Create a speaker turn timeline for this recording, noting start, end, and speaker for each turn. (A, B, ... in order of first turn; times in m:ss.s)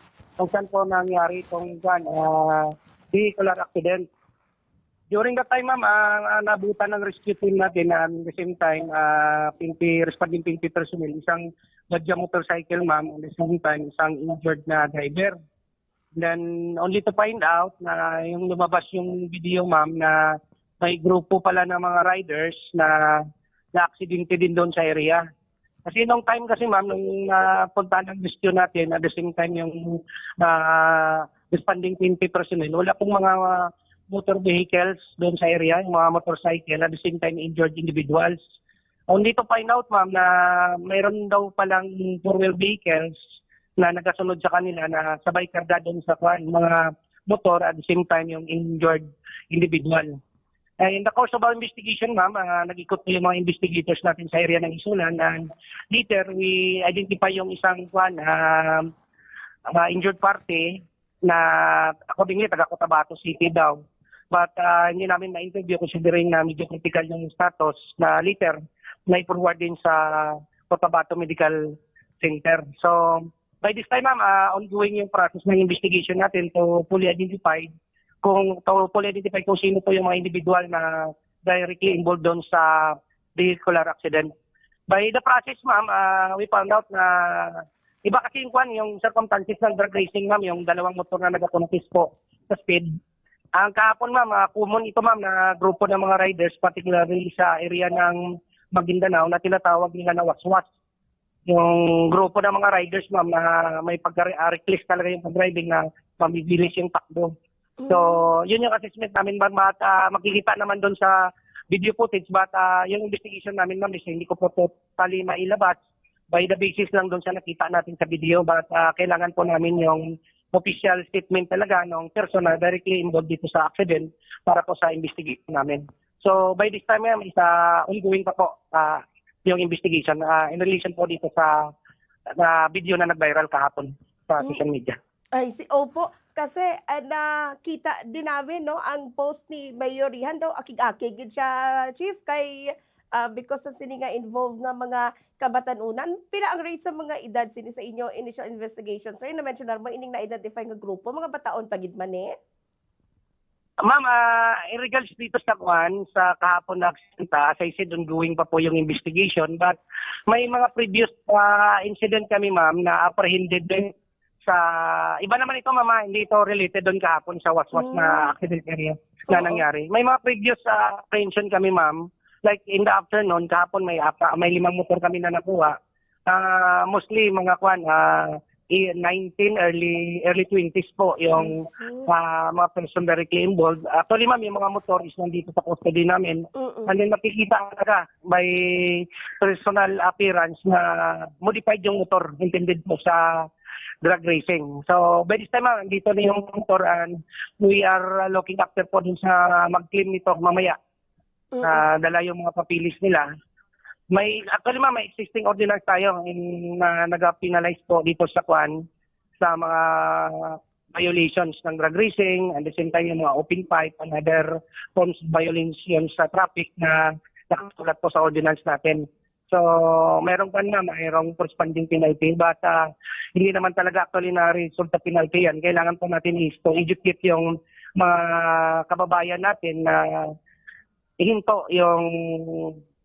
0:00.4-0:04.1 A
0:05.1-0:15.4 A
0:16.2-0:25.2 A
0:25.8-0:38.4 A
0:39.1-0:43.1 A
0:43.8-0:50.2 A
0:50.8-0:58.9 A
0:59.7-1:03.8 A
1:04.3-1:17.7 A
1:18.2-1:24.3 A
1:24.9-1:32.9 A
1:33.6-1:38.2 A
1:38.7-1:40.6 A
1:41.5-1:47.3 A
1:47.8-1:48.3 B
1:47.9-1:55.8 A
1:56.3-2:11.7 A
2:12.4-2:15.0 A
2:15.3-2:32.3 B
2:33.8-2:39.8 A
2:40.3-2:43.9 A
2:44.4-2:55.8 A
2:47.7-2:48.2 B
2:49.3-2:49.6 B
2:56.3-3:13.5 A
3:01.4-3:02.1 B
3:06.6-3:07.0 B
3:14.0-3:20.8 A
3:21.5-3:21.8 B
3:21.6-3:23.3 A
3:24.1-3:28.8 A
3:29.4-3:50.3 A
3:51.2-3:52.8 A